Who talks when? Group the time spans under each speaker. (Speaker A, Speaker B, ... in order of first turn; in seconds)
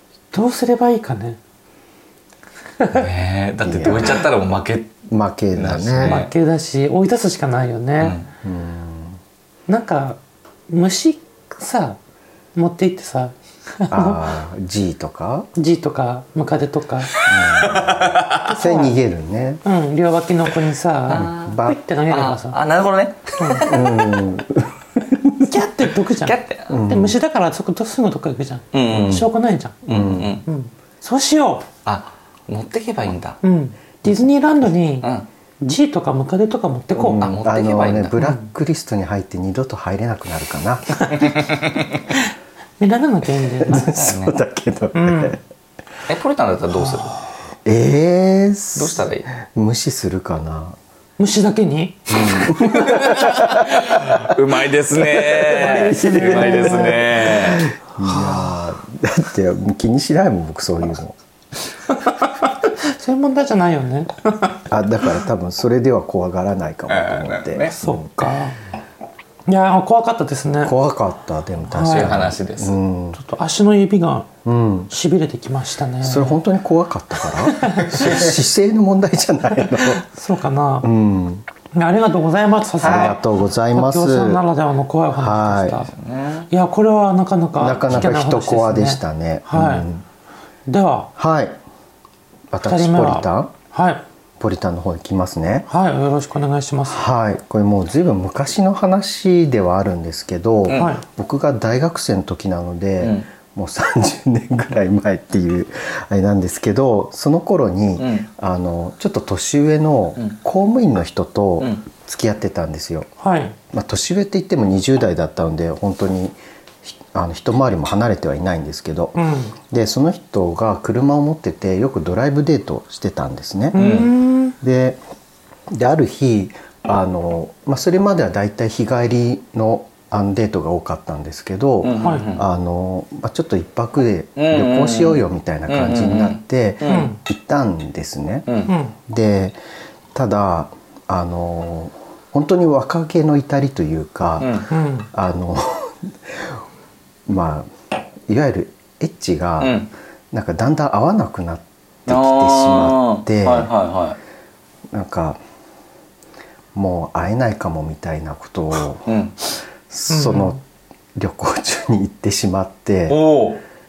Speaker A: 0.3-1.4, 6.0-8.2, 9.7-12.0, 12.5-14.3, 15.5-17.1, 18.4-18.9, 19.6-22.6, 23.4-23.7, 25.5-29.8, 30.4-31.6, 33.4-35.1, 35.6-37.3, 38.2-38.5, 42.8-44.0, 44.9-45.4, 46.8-47.1, 51.2-52.4, 55.5-57.3, 58.0-58.6, 62.0-64.6, 67.8-68.6, 69.5-70.7, 71.7-72.3, 73.1-74.3, 74.9-76.4, 77.5-78.2, 79.8-80.9, 81.7-85.9, 86.5-89.9, 90.7-91.1, 92.6-94.0, 95.7-97.1, 100.7-101.0, 113.2-113.5, 119.2-119.5, 123.7-124.5, 132.0-132.3, 136.8-137.2, 138.7-138.9, 144.7-145.1, 160.1-160.6
Speaker B: 2.9-5.0, 5.5-6.3, 8.0-8.3, 17.2-18.5, 21.1-24.2, 26.2-26.7, 28.7-29.3, 29.9-30.4, 31.8-33.4, 37.2-38.2, 41.2-41.8, 43.9-44.4, 46.1-47.1, 48.8-49.3, 52.4-57.6, 66.9-67.8, 71.8-72.8, 77.9-78.3, 85.9-86.5, 100.7-100.9, 103.0-103.2, 108.0-108.3, 123.8-124.1, 131.8-132.4, 134.4-137.1, 138.5-138.7, 144.4-144.7, 149.6-149.9, 152.1-154.2, 159.1-159.3, 163.1-163.6
Speaker C: 3.6-4.2, 5.1-6.2, 8.4-9.2, 13.9-15.5, 17.2-19.6, 21.1-21.8, 23.6-25.4, 26.7-27.1, 29.9-30.4, 37.0-41.2, 43.6-45.4, 47.6-50.8, 52.1-54.4, 55.1-61.2, 64.7-68.0, 70.6-73.2, 74.4-74.9, 76.0-80.0, 80.8-81.5, 82.8-84.4, 85.1-85.8, 87.6-90.0, 91.2-91.6, 92.5-93.5, 94.4-95.7, 96.9-113.1, 113.7-119.2, 119.7-123.8, 124.6-125.0, 125.7-138.5, 139.1-139.6, 140.1-146.6, 147.3-147.7, 148.3-153.7, 154.9-155.4, 156.7-159.1, 159.9-160.6, 161.2-163.2